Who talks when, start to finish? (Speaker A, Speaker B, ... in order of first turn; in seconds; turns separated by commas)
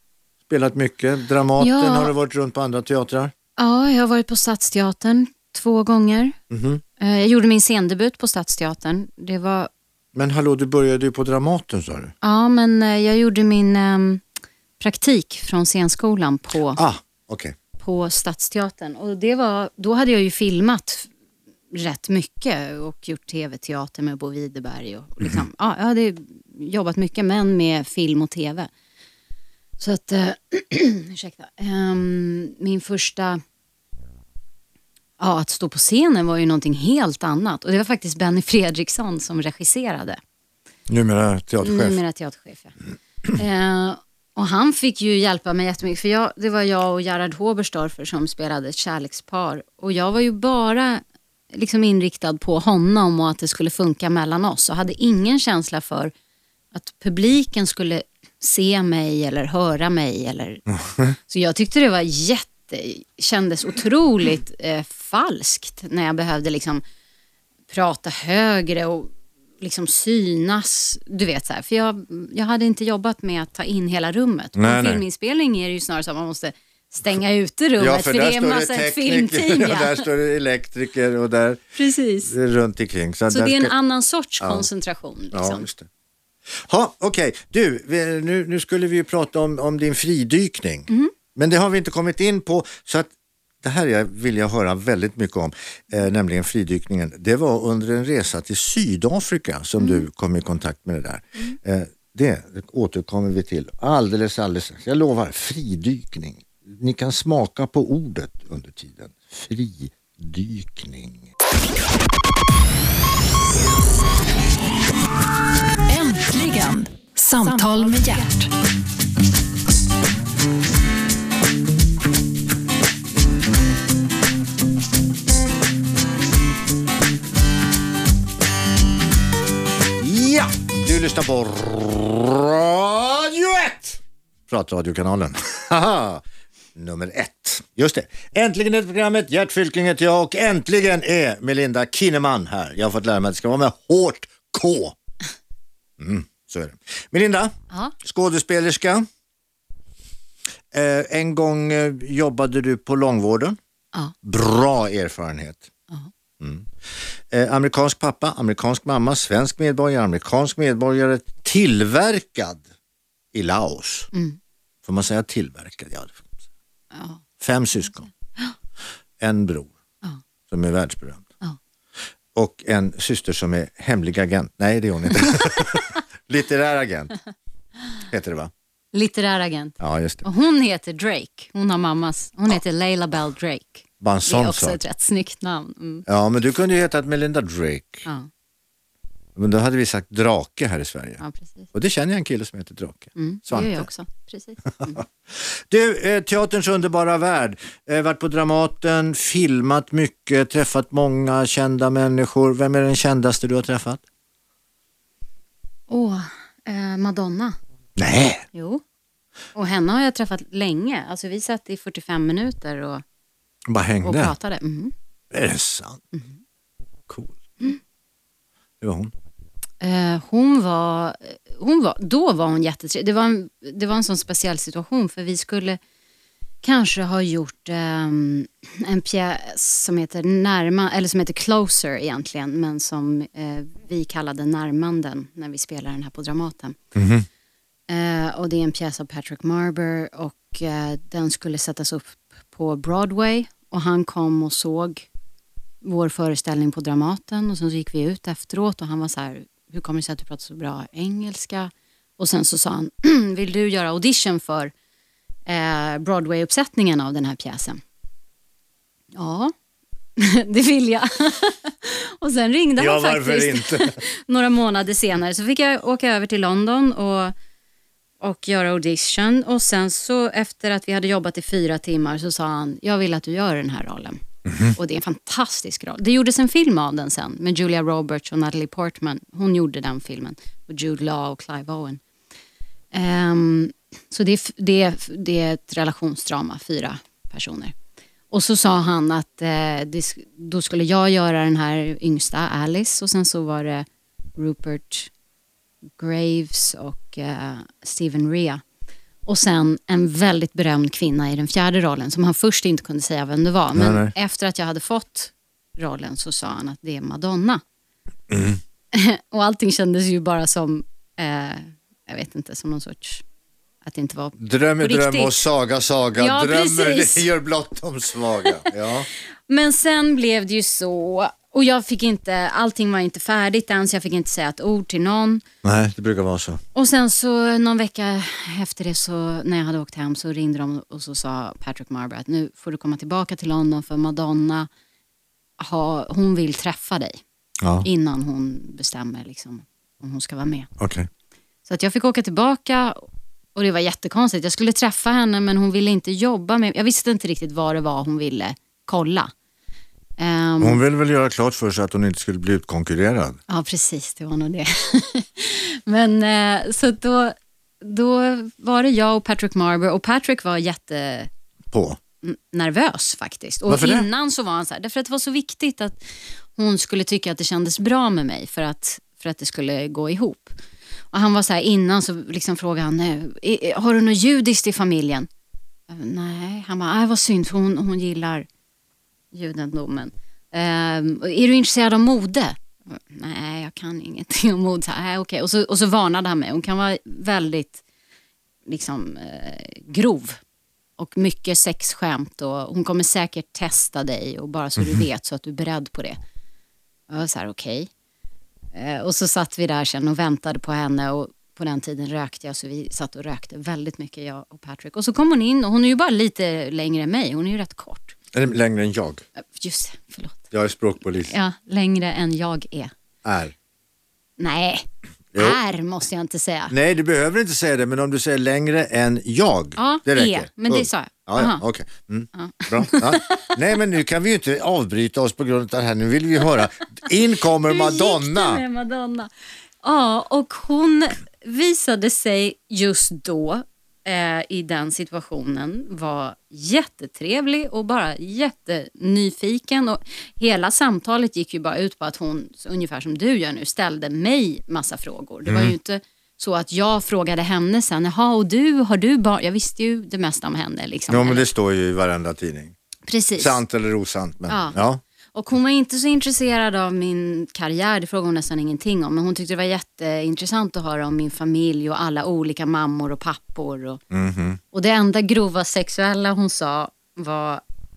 Speaker A: 0.5-3.3, Speaker B: 1.6-2.1, Speaker B: 3.6-6.4, Speaker A: 6.5-6.8, Speaker B: 7.0-9.7, Speaker A: 10.1-12.1, Speaker B: 12.2-14.2, Speaker B: 14.8-16.8, Speaker A: 16.7-17.5, Speaker B: 17.8-21.1, Speaker B: 21.7-28.7, Speaker B: 29.8-33.4, Speaker B: 35.2-40.2, Speaker A: 40.9-42.0, Speaker B: 41.6-42.8, Speaker B: 43.3-56.1, Speaker B: 56.7-66.8, Speaker B: 67.7-80.0, Speaker A: 74.5-75.0, Speaker A: 77.8-81.6, Speaker B: 81.8-82.3, Speaker A: 82.2-83.7, Speaker B: 83.3-85.7, Speaker A: 84.4-84.7, Speaker A: 85.3-85.9, Speaker A: 86.5-93.1, Speaker A: 93.6-111.3, Speaker B: 99.8-100.0, Speaker C: 115.9-118.5, Speaker A: 130.0-136.2, Speaker A: 136.7-144.9, Speaker A: 146.0-149.1, Speaker A: 150.7-153.6, Speaker A: 154.2-155.7, Speaker A: 156.4-156.7, Speaker A: 157.3-162.6, Speaker A: 163.3-164.1, Speaker B: 164.1-164.4, Speaker A: 164.8-166.3, Speaker B: 166.9-167.2, Speaker A: 167.4-168.1, Speaker A: 169.2-169.7, Speaker A: 170.5-171.2, Speaker A: 172.3-177.1, Speaker A: 178.1-178.5, Speaker B: 178.9-186.0, Speaker A: 179.8-180.2, Speaker A: 184.0-184.8, Speaker A: 186.1-188.1, Speaker A: 189.3-191.2, Speaker B: 191.2-191.7, Speaker A: 191.7-193.9, Speaker B: 193.2-195.0, Speaker A: 194.8-204.0, Speaker B: 205.9-207.6, Speaker A: 208.0-208.4, Speaker B: 208.5-208.8, Speaker B: 209.5-213.0, Speaker A: 213.7-214.3, Speaker B: 214.0-214.9, Speaker A: 215.3-216.0, Speaker A: 217.1-217.4, Speaker A: 218.8-219.1, Speaker B: 219.8-225.8, Speaker B: 226.6-236.8, Speaker A: 236.9-237.2, Speaker B: 237.9-245.1, Speaker B: 245.8-254.7, Speaker B: 255.4-257.8, Speaker B: 259.1-259.5, Speaker B: 260.2-267.3, Speaker A: 262.8-264.0, Speaker B: 268.2-282.0, Speaker A: 274.4-274.8, Speaker B: 282.9-287.7, Speaker B: 288.3-293.9, Speaker B: 294.4-295.1, Speaker B: 296.0-298.6, Speaker B: 299.2-307.6, Speaker A: 303.7-304.1, Speaker A: 308.3-308.6, Speaker B: 308.9-313.2, Speaker B: 313.8-315.4, Speaker A: 314.4-319.1, Speaker B: 316.2-317.3, Speaker B: 319.5-325.4, Speaker A: 325.6-326.6, Speaker B: 326.7-334.7, Speaker B: 335.6-337.2, Speaker A: 337.6-337.9, Speaker B: 337.8-340.7, Speaker A: 340.8-341.1, Speaker B: 341.6-349.3, Speaker B: 350.2-350.8, Speaker A: 350.6-353.4, Speaker B: 353.5-361.3, Speaker A: 361.7-362.0, Speaker B: 362.2-366.0, Speaker A: 363.7-364.1, Speaker B: 366.6-370.5, Speaker B: 371.1-375.3, Speaker B: 375.9-378.5, Speaker B: 379.3-387.8, Speaker B: 388.6-390.4, Speaker B: 391.0-396.2, Speaker B: 397.1-397.9, Speaker B: 398.7-408.1, Speaker A: 408.3-409.2, Speaker B: 409.4-410.5, Speaker A: 410.5-411.3, Speaker B: 411.2-412.9, Speaker A: 413.2-413.5, Speaker B: 414.4-416.7, Speaker A: 415.3-415.6, Speaker A: 416.7-428.6, Speaker B: 419.8-421.6, Speaker B: 422.3-423.6, Speaker B: 427.6-429.3, Speaker B: 429.8-451.5, Speaker A: 445.5-445.7, Speaker A: 451.1-452.7, Speaker B: 453.1-453.6, Speaker A: 453.4-455.0, Speaker B: 454.5-454.8, Speaker B: 455.3-464.0, Speaker A: 464.1-464.6, Speaker B: 464.7-467.6